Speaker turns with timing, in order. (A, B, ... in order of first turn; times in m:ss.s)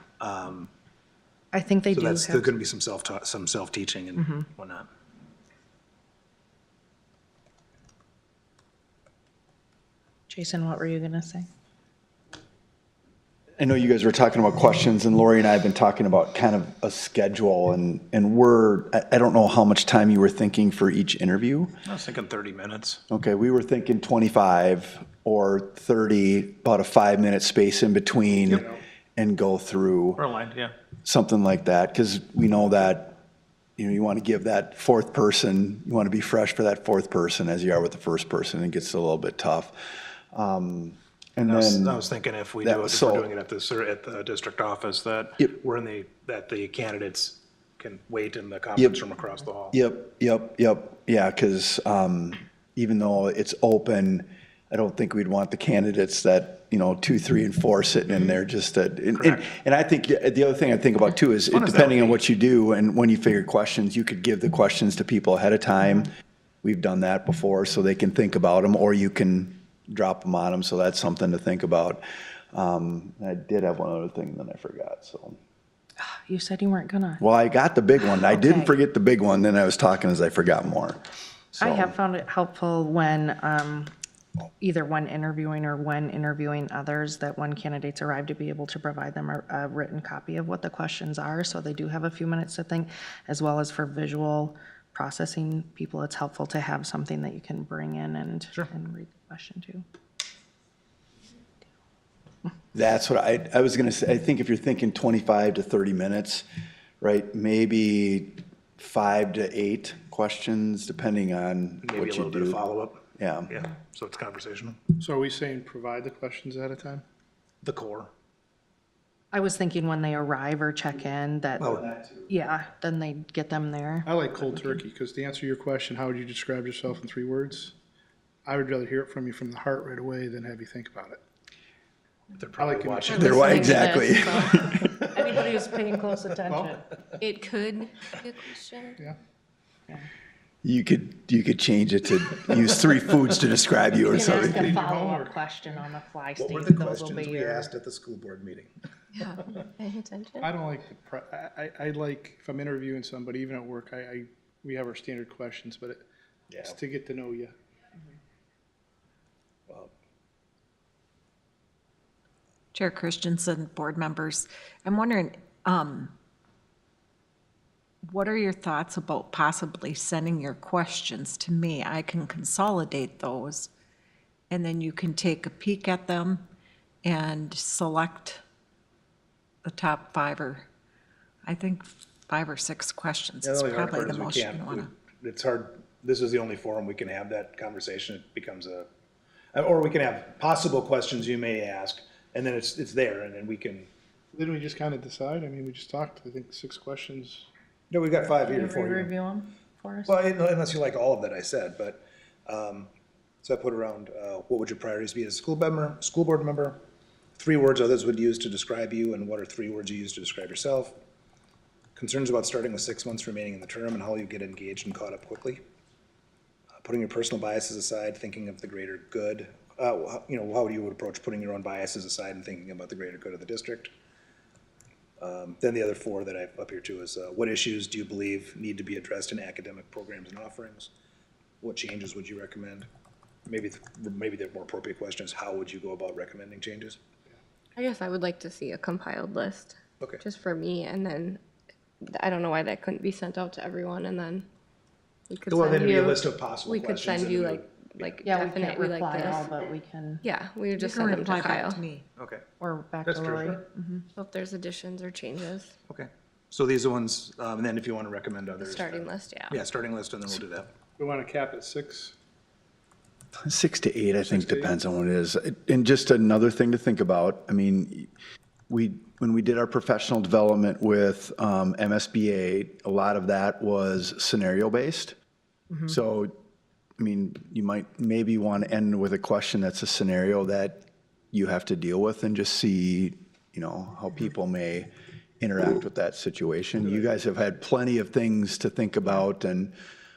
0:00.2-0:00.7 A
0:01.5-0:02.5 B
0:01.9-0:04.9 A
0:10.3-0:11.5 B
0:13.6-0:21.7 C
0:21.8-0:23.0 A
0:23.1-0:30.2 C
0:30.2-0:30.7 A
0:31.0-0:33.2 C
0:33.8-0:39.8 C
0:40.3-0:42.0 C
0:41.4-0:49.8 A
0:42.6-0:43.3 C
0:49.7-1:06.1 C
0:59.1-0:59.5 A
1:01.5-1:02.2 A
1:06.6-1:15.4 C
1:16.1-1:17.2 B
1:17.2-1:21.0 C
1:18.4-1:18.7 B
1:21.5-1:21.9 C
1:21.6-1:23.9 B
1:24.6-1:39.8 B
1:42.7-1:46.5 C
1:47.0-1:52.6 C
1:51.8-1:54.8 A
1:53.2-1:53.5 C
1:55.0-1:57.0 D
1:57.6-1:58.1 A
1:59.3-2:04.8 B
2:01.6-2:01.9 A
2:04.0-2:07.7 D
2:08.4-2:11.2 D
2:12.3-2:14.0 A
2:12.6-2:13.2 D
2:13.1-2:16.9 B
2:13.1-2:14.9 C
2:17.2-2:19.0 E
2:20.6-2:24.8 C
2:24.1-2:27.7 B
2:24.2-2:25.4 D
2:26.4-2:28.7 A
2:29.2-2:30.5 E
2:30.4-2:36.0 D
2:36.5-2:36.8 A
2:36.6-2:37.5 D
2:42.7-2:46.1 F
2:48.1-2:53.7 F
2:54.5-2:56.4 F
2:57.0-2:58.4 F
2:59.6-3:00.7 F
3:01.5-3:04.9 F
3:03.4-3:08.9 A
3:09.5-3:13.9 A
3:14.3-3:17.5 D
3:17.9-3:19.1 A
3:18.4-3:20.1 B
3:20.1-3:22.9 A
3:23.4-3:26.8 A
3:27.4-3:31.0 A
3:32.0-3:35.6 A
3:36.8-3:43.9 A
3:45.2-3:50.9 A
3:51.6-3:52.9 A
3:53.5-3:57.0 A
3:57.8-4:01.4 E
4:02.0-4:04.5 E
4:05.3-4:09.5 E
4:05.5-4:08.1 A
4:08.2-4:10.2 B
4:10.2-4:11.8 E
4:10.8-4:12.1 F
4:12.2-4:12.4 A
4:12.6-4:14.0 B
4:13.0-4:13.6 A
4:14.2-4:15.7 E
4:15.9-4:20.7 A
4:18.6-4:19.6 E
4:21.0-4:22.1 D
4:23.4-4:28.1 C
4:24.2-4:24.7 D
4:28.7-4:35.2 C
4:35.9-4:36.4 C
4:37.0-4:49.7 C